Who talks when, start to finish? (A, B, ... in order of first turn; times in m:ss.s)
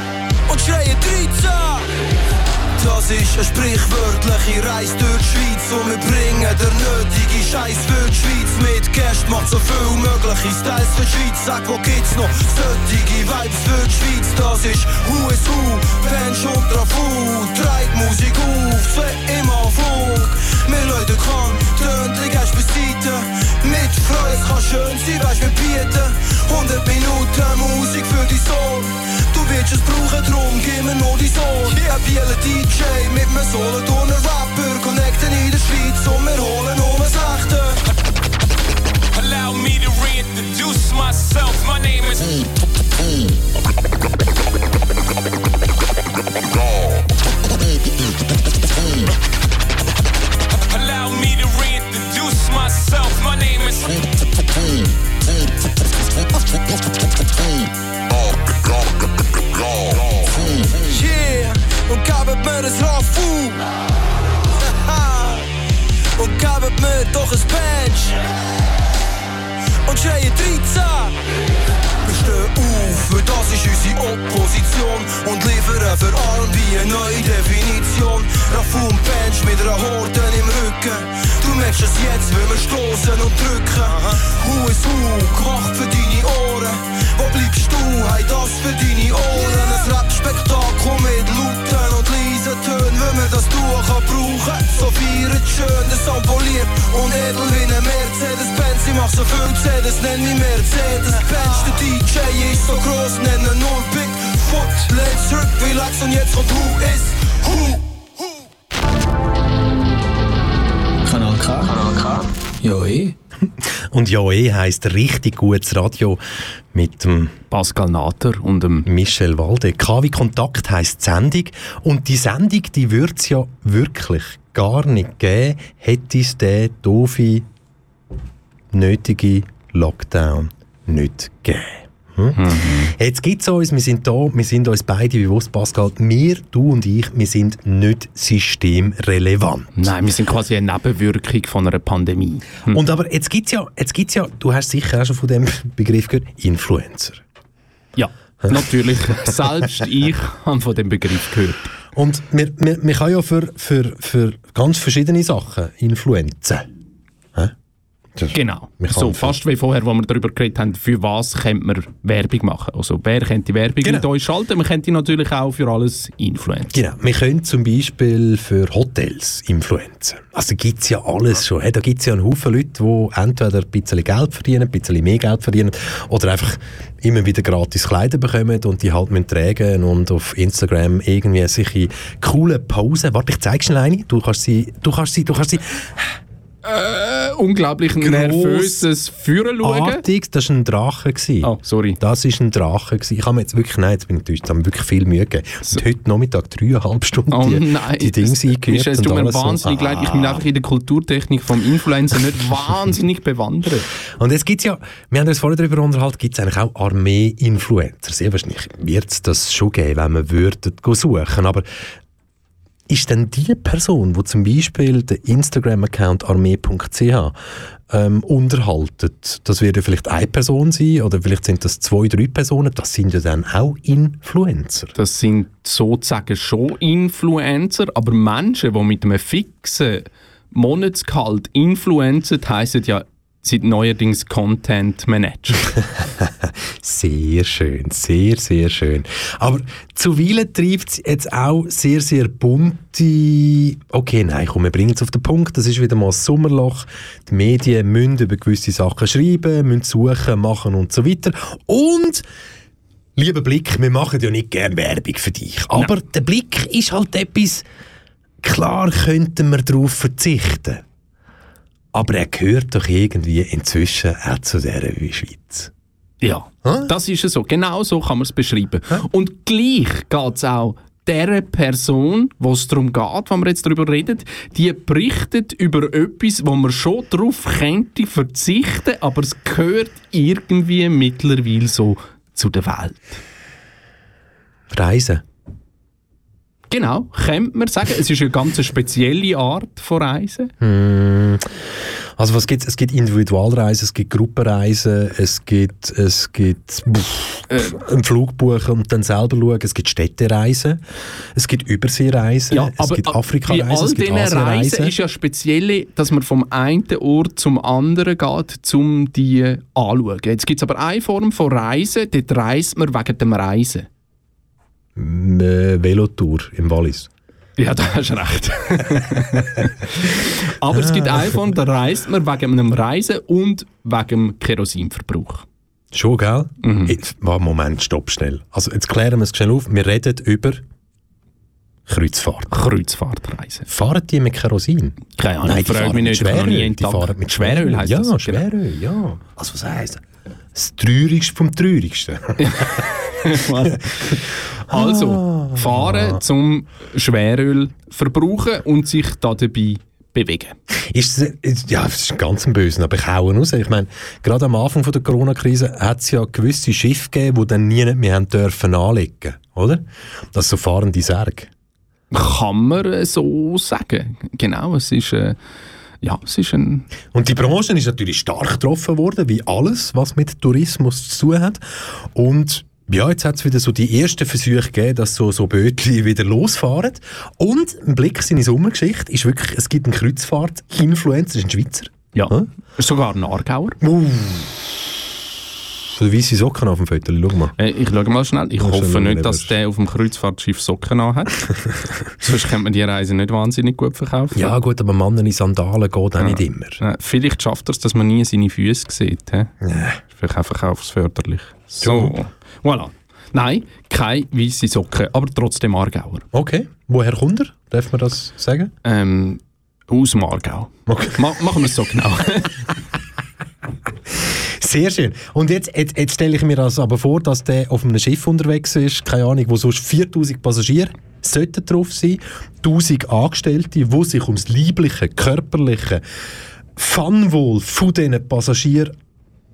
0:00.5-0:01.9 A
0:02.8-0:37.8 A
0:39.1-0:42.4 B
0:50.7-0:54.0 B
1:00.8-1:03.6 A
1:04.7-1:05.5 A
1:06.2-1:08.2 A
1:09.8-1:11.2 A
1:12.0-1:47.8 A
1:51.0-1:53.2 C
1:53.5-1:56.2 D
1:56.7-1:57.4 D
1:57.5-1:58.9 E
1:58.8-2:07.5 D
2:08.7-2:19.9 D
2:12.4-2:12.9 E
2:19.8-2:22.8 E
2:22.7-2:27.2 D
2:28.0-2:31.7 E
2:31.9-2:36.7 D
2:38.2-2:39.4 D
2:38.3-2:46.8 E
2:43.8-2:44.1 D
2:46.7-3:06.2 D
3:06.6-3:10.0 E
3:08.0-3:08.9 D
3:09.6-3:20.4 D
3:11.4-3:12.0 E
3:17.3-3:23.9 E
3:24.2-3:31.8 D
3:32.9-3:37.4 D
3:37.9-3:45.0 D
3:45.0-3:55.7 E
3:55.8-4:12.3 D
4:13.2-4:17.6 D
4:18.4-4:20.8 D
4:21.9-4:25.7 D
4:26.2-4:43.2 E
4:26.6-4:26.9 D
4:44.7-4:45.2 D
4:46.7-4:50.5 E
4:50.6-5:00.8 D
4:57.5-4:57.8 E
5:01.4-5:05.0 D
5:02.5-5:13.9 E
5:15.0-5:17.1 D
5:17.6-5:25.4 E
5:20.7-5:21.4 D
5:25.9-5:30.6 D
5:26.6-5:27.0 E
5:31.9-5:32.7 D
5:32.5-5:33.7 E
5:33.7-5:40.0 D
5:35.2-5:38.4 E
5:40.5-5:42.8 D
5:42.4-5:50.6 E
5:43.6-5:44.2 D
5:44.7-5:46.2 D
5:50.7-6:01.5 D
6:02.1-6:05.4 E
6:06.0-6:06.9 E
6:07.1-6:22.5 D
6:22.1-6:23.8 E
6:23.8-6:24.6 D
6:25.9-6:27.5 D
6:27.6-6:31.4 E
6:28.6-6:29.5 D
6:32.2-6:34.5 E
6:34.3-6:36.8 D
6:36.2-6:39.5 E
6:39.6-6:40.0 D
6:40.1-6:46.2 E
6:41.8-6:42.2 D
6:46.3-6:48.7 D
6:48.8-6:52.6 E
6:50.9-6:51.2 D
6:54.2-7:06.0 D
7:06.8-7:08.9 D